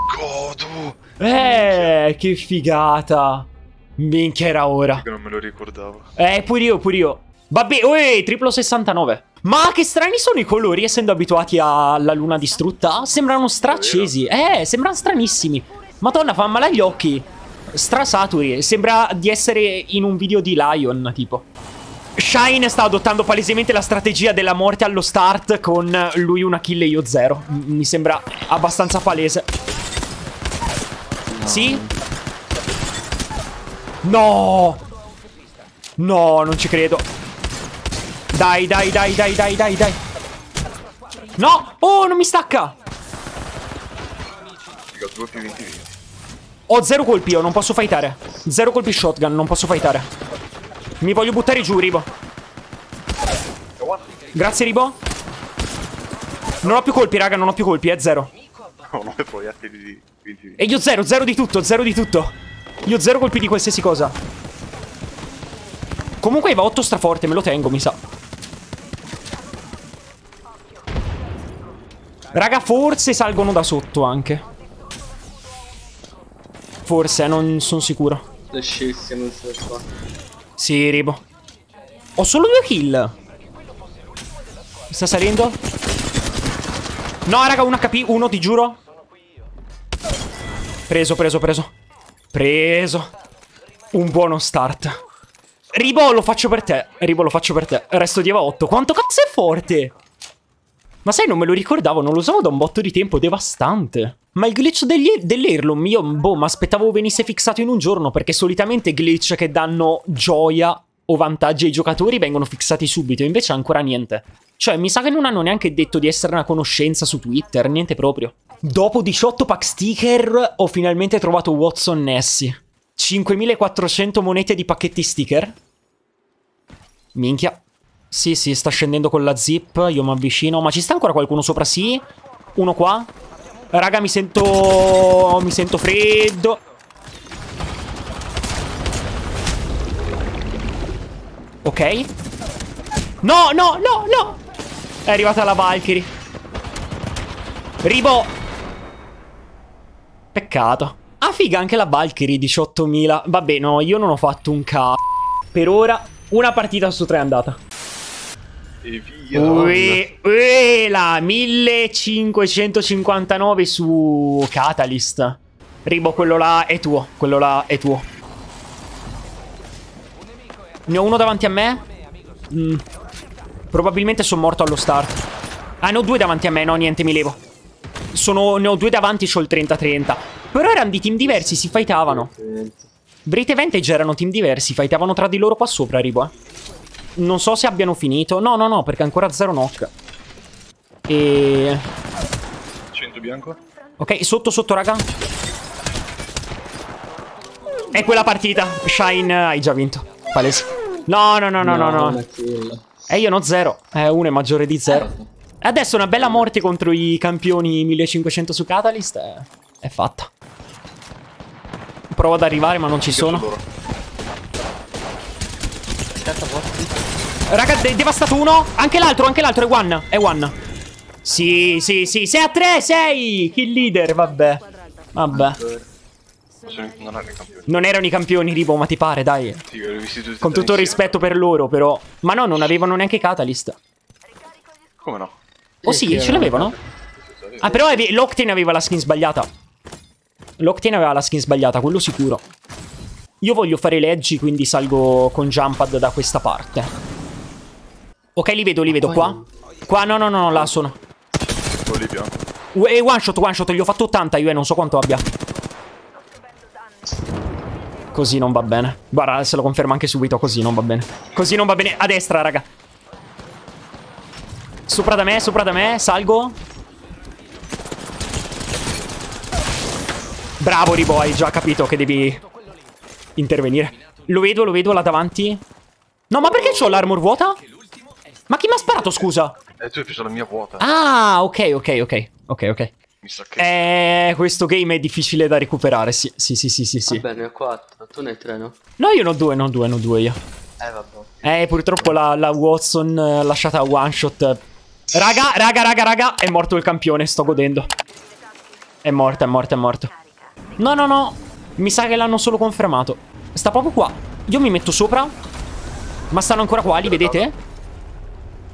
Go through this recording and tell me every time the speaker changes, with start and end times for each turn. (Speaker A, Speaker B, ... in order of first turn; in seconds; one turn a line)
Speaker A: 0.1-1.9
Speaker B: 1.2-5.0
Speaker A: 4.9-6.1
Speaker B: 6.2-21.4
Speaker A: 13.7-14.2
Speaker B: 22.2-29.5
Speaker C: 31.3-31.9
Speaker B: 31.4-31.8
Speaker B: 34.0-34.8
Speaker B: 36.0-37.0
Speaker B: 38.3-40.0
Speaker B: 41.4-42.7
Speaker A: 44.9-45.9
Speaker B: 46.7-50.1
Speaker B: 51.0-52.1
Speaker A: 53.8-54.1
Speaker B: 54.3-55.0
Speaker B: 56.6-58.3
Speaker A: 58.8-60.6
Speaker B: 60.6-64.2
Speaker B: 66.2-68.0
Speaker B: 72.3-74.4
Speaker B: 76.9-78.3
Speaker C: 78.5-79.9
Speaker B: 80.6-81.2
Speaker B: 82.2-83.1
Speaker B: 84.9-85.6
Speaker B: 87.3-88.8
Speaker B: 90.9-91.7
Speaker B: 92.3-93.1
Speaker B: 93.9-95.0
Speaker B: 95.7-99.9
Speaker B: 101.0-125.5
Speaker B: 127.1-132.0
Speaker B: 132.6-133.1
Speaker B: 133.7-136.6
Speaker B: 141.6-142.1
Speaker B: 143.2-144.4
Speaker B: 145.0-146.1
Speaker B: 147.8-148.3
Speaker B: 150.3-155.0
Speaker B: 155.5-157.6
Speaker A: 158.8-159.8
Speaker C: 159.3-160.0
Speaker B: 159.4-168.1
Speaker B: 170.9-171.8
Speaker B: 172.5-172.8
Speaker B: 173.7-175.2
Speaker B: 175.8-177.4
Speaker B: 178.1-182.3
Speaker C: 181.2-182.9
Speaker B: 183.2-186.3
Speaker B: 187.2-189.9
Speaker B: 191.1-191.8
Speaker A: 192.9-193.6
Speaker B: 194.0-195.0
Speaker B: 197.9-202.2
Speaker C: 201.6-203.0
Speaker B: 203.1-210.3
Speaker C: 204.9-205.3
Speaker B: 212.1-213.5
Speaker A: 213.1-213.6
Speaker C: 216.1-217.0
Speaker B: 217.5-220.5
Speaker B: 221.2-224.6
Speaker B: 225.1-225.6
Speaker C: 225.3-225.8
Speaker A: 226.6-227.9
Speaker B: 227.7-229.6
Speaker A: 229.7-231.2
Speaker B: 230.4-233.8
Speaker A: 235.0-235.3
Speaker C: 235.8-236.9
Speaker B: 235.8-236.8
Speaker A: 237.2-238.0
Speaker B: 237.6-239.5
Speaker B: 240.6-242.4
Speaker B: 243.4-246.9
Speaker B: 248.3-250.9
Speaker C: 248.9-249.5
Speaker A: 251.8-252.4
Speaker B: 252.7-255.2
Speaker B: 258.1-262.7
Speaker B: 264.9-266.6
Speaker B: 270.6-272.4
Speaker B: 273.4-275.6
Speaker B: 276.3-277.6
Speaker A: 276.4-276.9
Speaker B: 278.5-279.6
Speaker A: 279.8-280.9
Speaker B: 280.8-282.9
Speaker A: 283.2-283.8
Speaker B: 283.6-287.2
Speaker C: 287.1-288.8
Speaker B: 289.0-290.4
Speaker C: 290.8-292.1
Speaker B: 291.4-294.6
Speaker B: 295.1-297.9
Speaker B: 299.0-300.1
Speaker B: 300.8-305.3
Speaker B: 306.3-307.5
Speaker A: 306.8-307.5